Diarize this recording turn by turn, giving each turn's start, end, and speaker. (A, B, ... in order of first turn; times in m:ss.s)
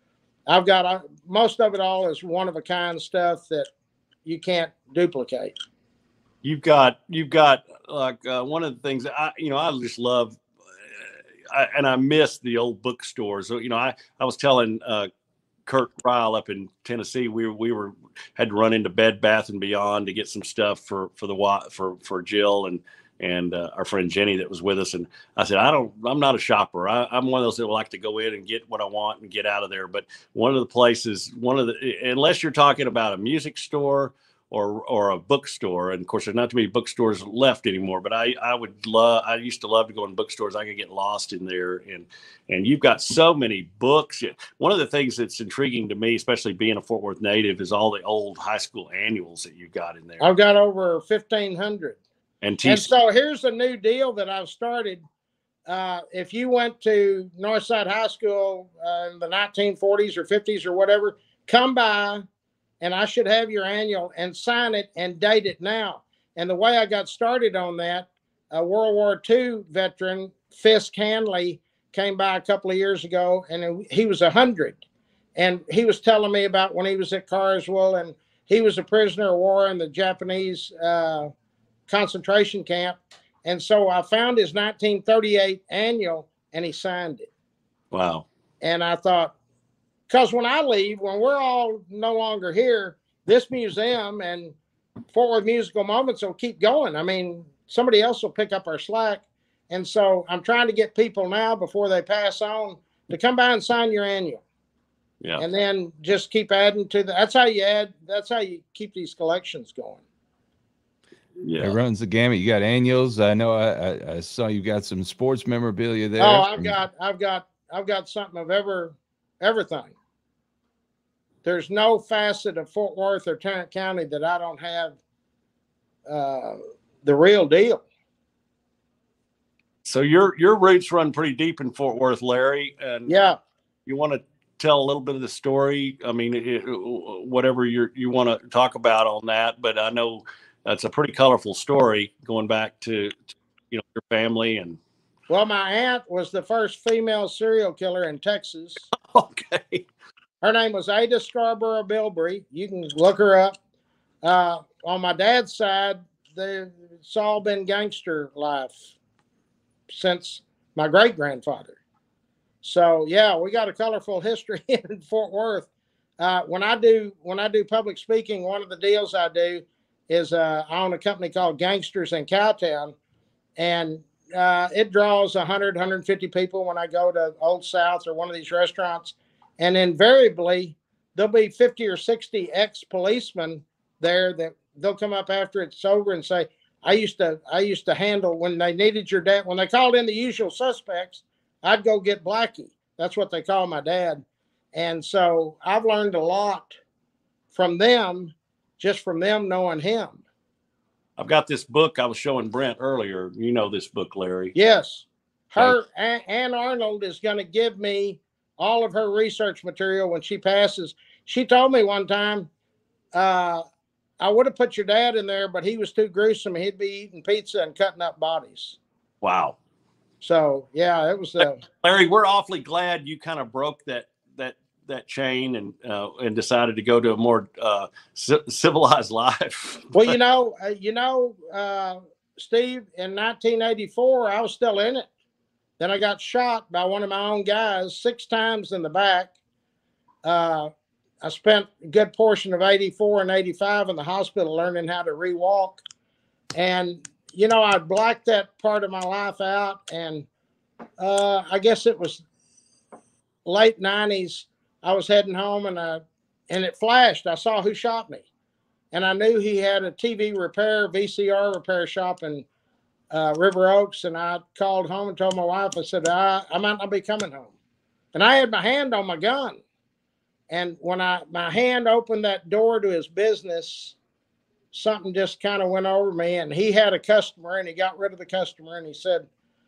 0:00.5-0:03.7 A
0:04.2-0:05.5 A
0:06.4-0:10.4 B
0:10.9-0:15.1 B
0:15.7-0:50.2 B
0:50.2-0:52.0 A
0:52.4-0:52.9 B
0:52.6-0:55.0 A
0:55.7-1:02.2 A
1:02.8-1:14.8 A
1:15.4-1:21.3 A
1:21.9-1:27.3 A
1:27.9-1:28.2 B
1:28.6-1:29.3 A
1:30.1-1:34.6 A
1:35.1-1:44.4 A
1:45.4-1:50.0 A
1:51.4-1:51.8 B
1:51.6-1:56.7 C
1:56.2-1:59.9 A
2:01.4-2:05.0 A
2:06.1-2:07.8 A
2:09.8-2:13.2 B
2:13.1-2:13.4 A
2:13.9-2:23.1 B
2:23.7-2:24.8 B
2:25.3-2:28.8 A
2:29.1-2:29.8 B
2:30.4-2:33.6 A
2:34.2-2:38.9 A
2:39.9-2:41.8 A
2:42.6-2:53.0 A
2:53.6-3:16.8 A
3:17.5-3:20.2 A
3:21.2-3:24.6 B
3:24.6-3:32.5 A
3:33.1-3:33.6 A
3:34.2-3:38.8 A
3:39.2-3:39.6 B
3:40.2-3:41.6 A
3:41.4-3:50.1 B
3:49.9-3:55.1 A
3:55.8-3:59.3 A
4:00.2-4:00.7 A
4:01.2-4:05.8 A
4:06.6-4:10.3 A
4:11.0-4:12.2 A
4:13.4-4:18.2 A
4:18.9-4:22.5 A
4:23.1-4:27.5 A
4:28.1-4:29.6 A
4:30.5-4:34.0 A
4:34.7-4:39.3 A